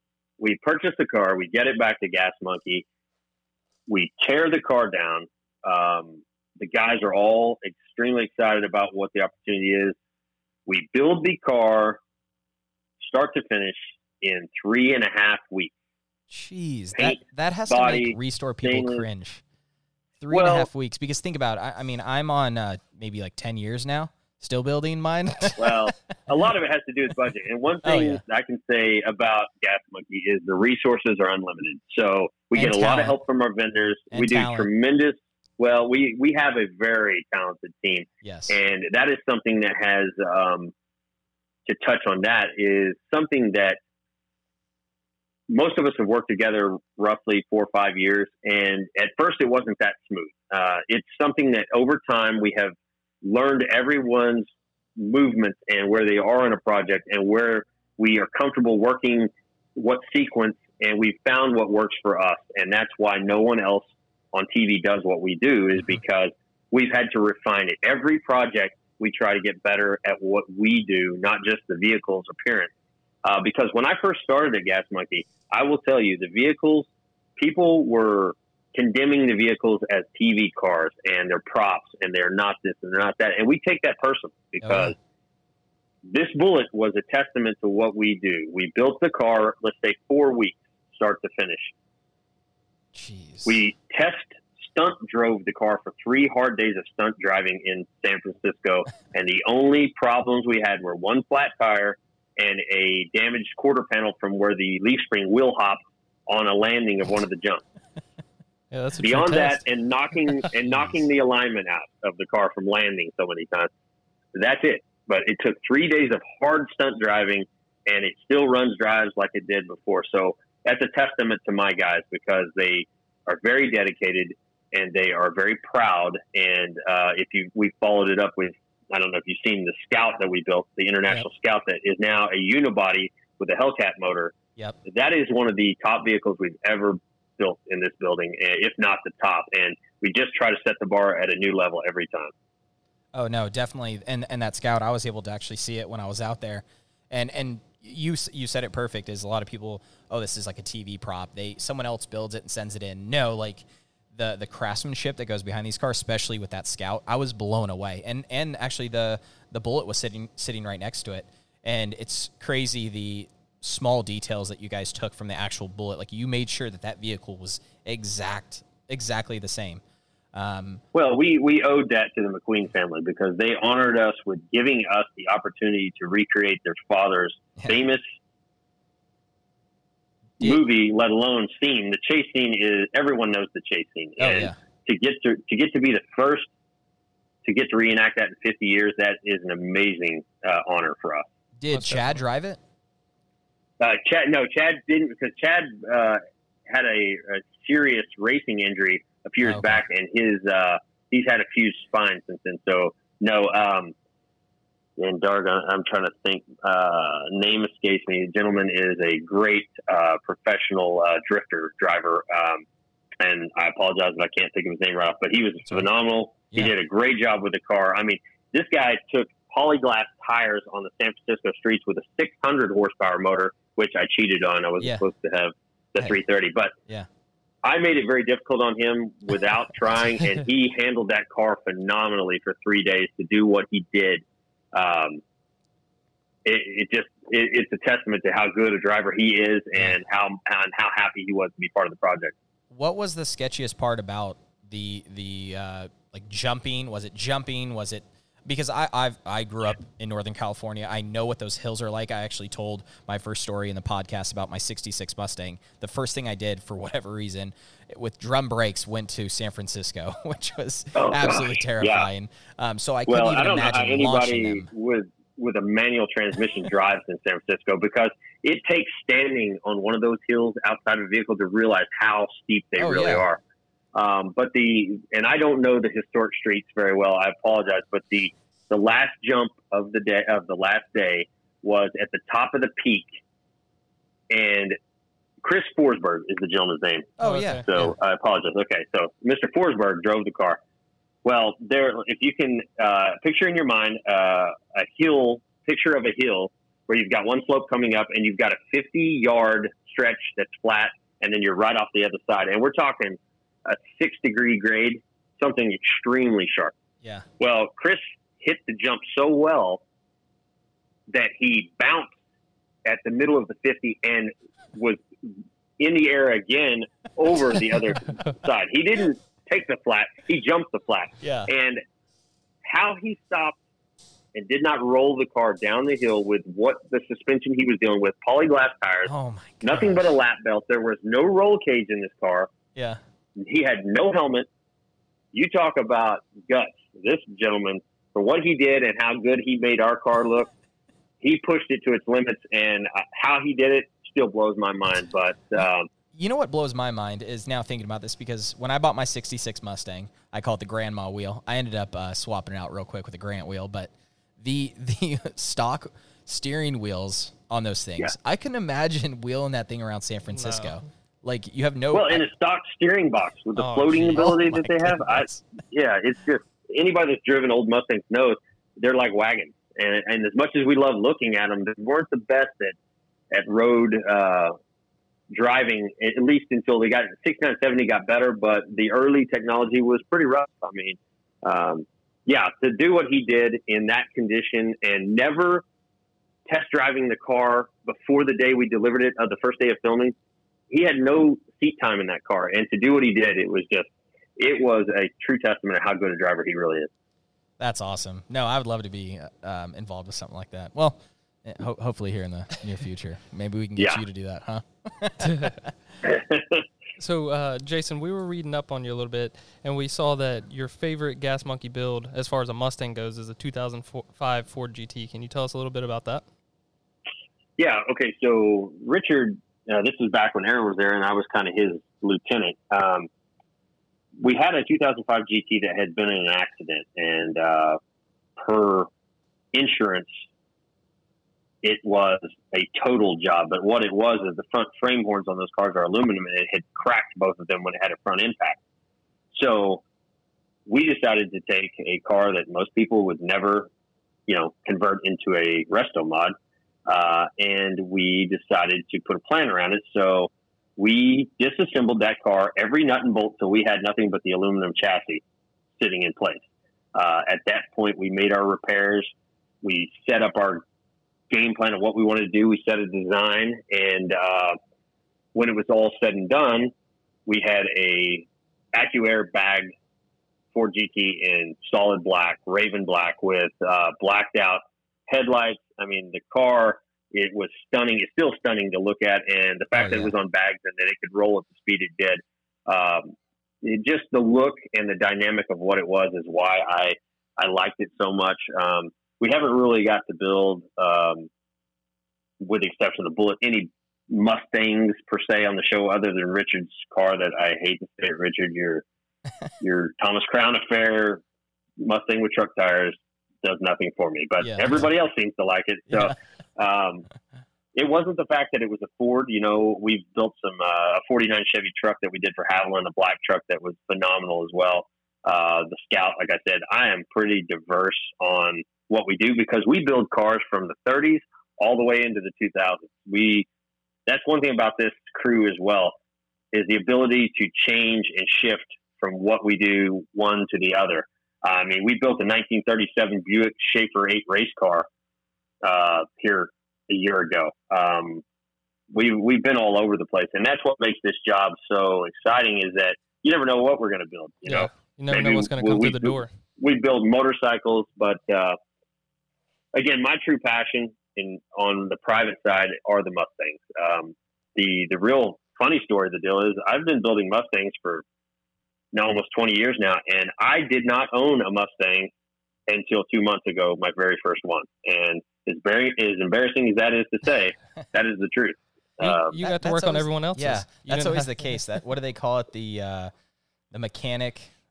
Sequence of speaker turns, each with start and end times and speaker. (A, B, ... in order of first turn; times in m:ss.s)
0:00.4-0:02.8 A
0:03.9-0:10.0 A
0:10.6-0:12.0 A
0:13.0-0:15.7 A
0:16.3-0:19.4 B
0:16.9-0:19.0 A
0:20.2-0:26.0 B
0:20.3-0:20.7 A
0:25.6-0:40.7 A
0:27.8-0:28.2 B
0:32.5-0:33.2 B
0:34.1-0:34.7 B
0:38.2-0:38.6 B
0:41.6-0:43.8 A
0:45.5-1:12.7 A
1:13.2-1:24.9 A
1:24.6-1:24.9 B
1:26.1-1:31.7 A
1:32.9-1:33.6 B
1:33.4-1:47.6 A
1:48.7-1:49.6 C
1:49.0-1:53.7 A
1:50.6-1:51.0 B
1:54.3-2:22.3 A
2:23.1-2:49.8 B
2:50.3-2:50.8 B
2:50.9-2:58.1 A
3:00.4-3:06.5 A
3:04.2-3:04.5 B
3:07.4-3:11.2 A
3:11.6-3:12.6 B
3:11.7-3:12.2 C
3:13.8-3:23.9 A
3:19.4-3:19.8 B
3:25.0-3:32.6 A
3:33.2-3:46.7 A
3:47.6-3:55.2 A
3:56.4-4:02.3 A
4:02.7-4:24.7 B
4:20.9-4:22.1 A
4:23.1-4:33.4 A
4:32.8-4:33.2 B
4:33.9-4:43.1 A
4:44.3-4:44.8 A
4:45.4-4:50.6 A
4:47.2-4:47.9 B
4:47.2-4:47.6 C
4:51.2-5:06.7 A
5:07.4-5:09.8 A
5:11.1-5:12.2 A
5:12.8-5:21.8 A
5:21.2-5:21.5 B
5:22.6-5:23.6 A
5:24.3-5:29.1 A
5:29.0-5:30.0 B
5:29.6-5:32.5 A
5:32.7-5:33.0 B
5:33.4-5:34.5 A
5:35.3-5:40.5 A
5:41.2-5:45.9 A
5:45.6-6:02.2 B
6:00.3-6:00.8 C
6:01.9-6:12.8 A
6:03.6-6:04.4 C
6:03.9-6:05.5 B
6:13.3-6:14.6 A
6:15.3-6:25.6 A
6:26.5-6:30.1 A
6:30.7-6:36.9 A
6:37.6-6:45.7 B
6:43.8-6:44.0 A
6:45.2-6:45.6 C
6:46.0-6:46.6 A
6:47.0-6:56.2 C
6:57.6-7:03.1 A
7:04.2-7:07.8 A
7:08.4-7:08.9 A
7:09.5-7:10.1 A
7:11.6-7:18.6 A
7:19.3-7:19.8 A
7:20.6-7:23.7 A
7:24.3-7:26.3 A
7:26.9-7:35.2 A
7:35.8-7:36.4 A
7:36.9-7:40.6 A
7:41.3-7:44.6 A
7:45.3-7:46.7 A
7:47.3-7:49.7 A
7:50.5-8:11.3 A
7:59.7-8:00.1 B
8:12.4-8:18.8 A
8:19.6-8:21.2 A
8:21.8-8:27.0 A
8:24.4-8:24.8 B
8:27.7-8:43.5 A
8:44.0-8:46.0 A
8:46.5-8:54.9 A
8:55.6-8:58.2 A
8:58.9-9:08.6 A
9:04.5-9:06.3 C
9:09.7-9:18.0 A
9:18.9-9:22.1 A
9:22.7-9:29.3 A
9:29.0-9:31.6 C
9:29.3-9:33.1 B
9:33.7-9:34.5 B